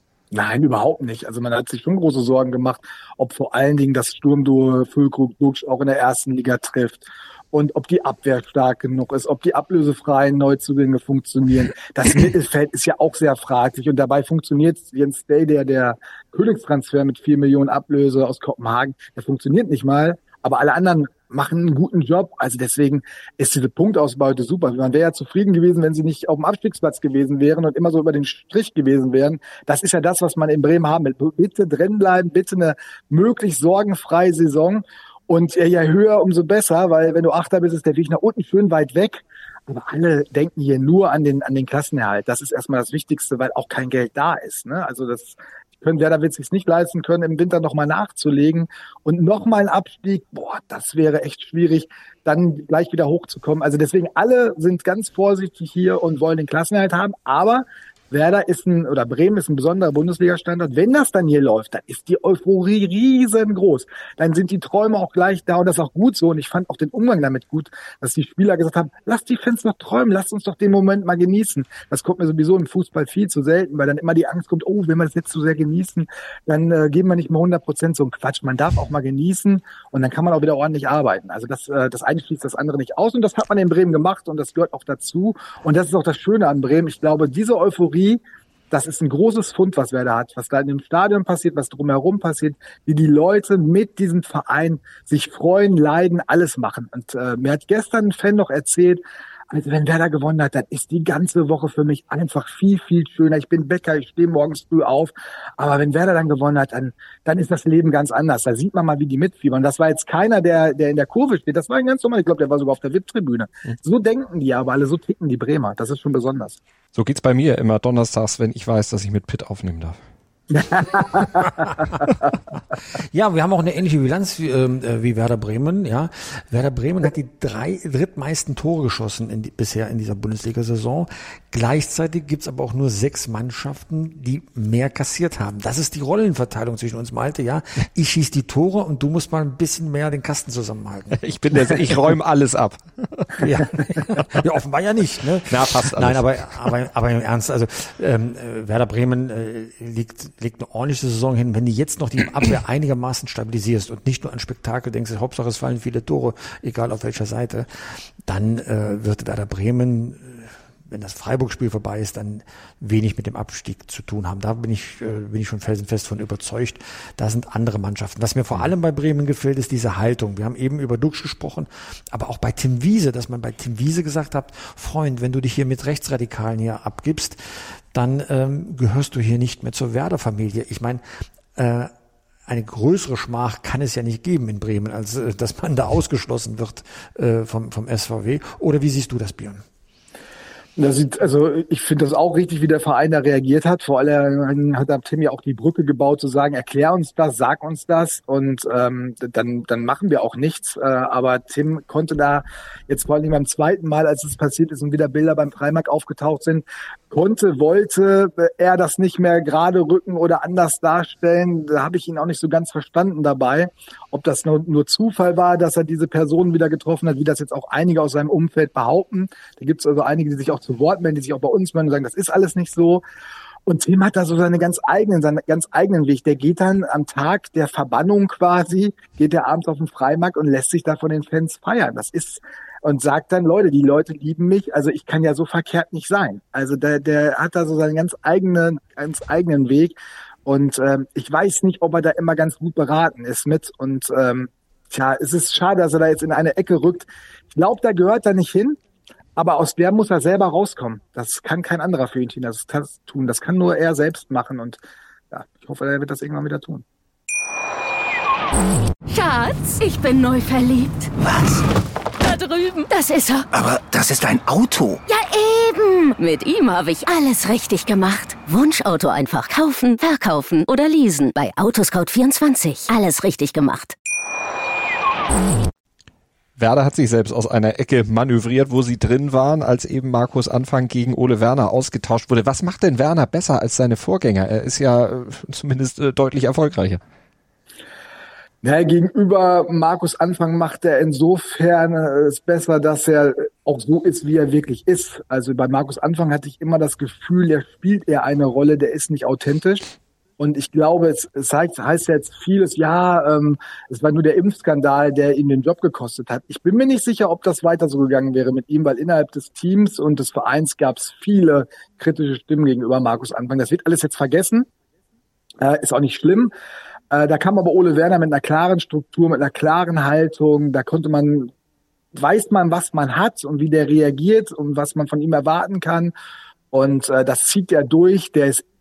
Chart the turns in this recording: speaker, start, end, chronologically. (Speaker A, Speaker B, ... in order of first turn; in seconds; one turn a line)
Speaker A: 0.3-88.2
Speaker A: 88.7-116.6
Speaker B: 116.9-120.0
Speaker A: 120.5-121.6
Speaker C: 123.0-141.8
Speaker B: 141.2-143.3
Speaker C: 143.4-177.4
Speaker B: 145.5-146.7
Speaker C: 177.9-181.0
Speaker C: 181.6-181.9
Speaker C: 182.5-189.6
Speaker A: 190.8-223.0
Speaker A: 223.7-248.8
Speaker A: 249.4-254.8
Speaker A: 255.3-256.8
Speaker D: 259.1-261.1
Speaker E: 261.2-261.6
Speaker D: 262.2-263.5
Speaker E: 263.5-265.0
Speaker D: 265.1-273.9
Speaker B: 276.6-287.0
Speaker A: 288.6-314.7
Speaker A: 315.6-316.5
Speaker A: 317.1-321.5
Speaker A: 322.1-326.1
Speaker A: 326.7-328.6